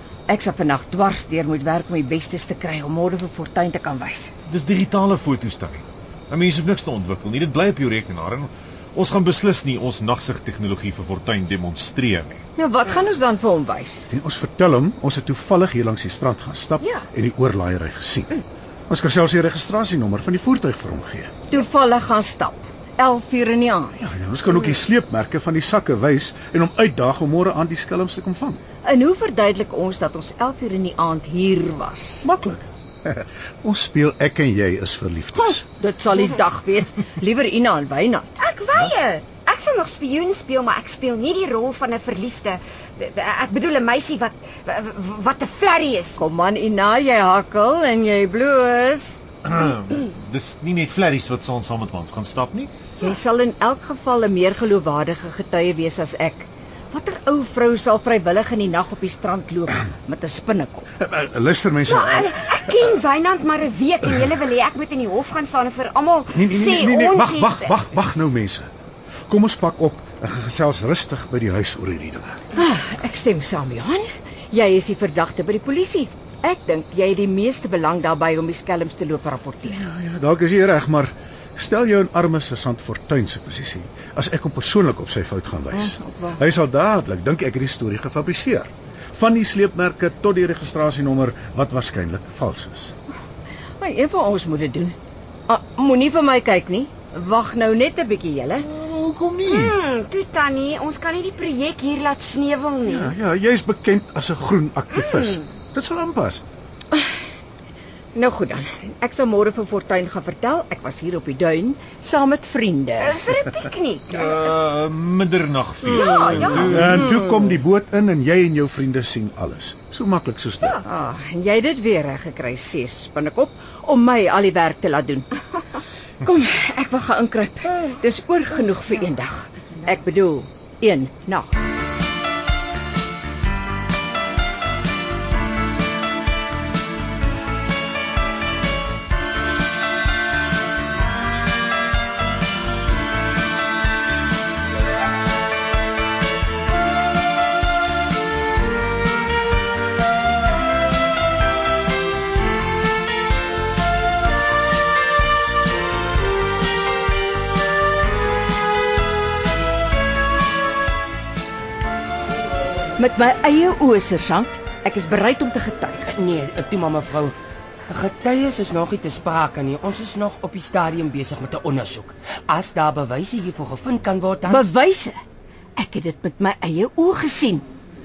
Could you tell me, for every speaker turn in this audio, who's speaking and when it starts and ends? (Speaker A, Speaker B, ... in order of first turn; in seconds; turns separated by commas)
Speaker A: 0.3-4.3, Speaker B: 4.5-12.4, Speaker A: 12.6-14.1, Speaker C: 14.1-21.3, Speaker A: 21.5-24.1, Speaker C: 24.0-28.6, Speaker A: 28.9-32.3, Speaker C: 32.2-35.6, Speaker A: 35.4-38.4, Speaker D: 38.4-46.2, Speaker A: 46.2-49.2, Speaker B: 49.5-52.7, Speaker A: 53.0-60.9, Speaker C: 61.0-62.3, Speaker D: 61.9-67.7, Speaker C: 66.3-68.7, Speaker C: 69.3-72.4, Speaker A: 72.5-79.9, Speaker C: 79.7-92.9, Speaker A: 85.7-86.4, Speaker A: 93.8-95.0, Speaker A: 95.5-98.7, Speaker B: 98.8-99.7, Speaker D: 99.4-103.1, Speaker C: 102.8-106.4, Speaker D: 104.9-105.4, Speaker A: 108.2-113.2, Speaker D: 113.0-114.5, Speaker B: 114.1-117.0, Speaker D: 115.9-116.8, Speaker C: 116.6-120.8, Speaker A: 120.8-125.3, Speaker A: 126.2-131.6, Speaker A: 163.0-166.1, Speaker E: 166.1-167.3, Speaker E: 167.9-174.7, Speaker A: 174.5-175.1, Speaker A: 175.8-177.7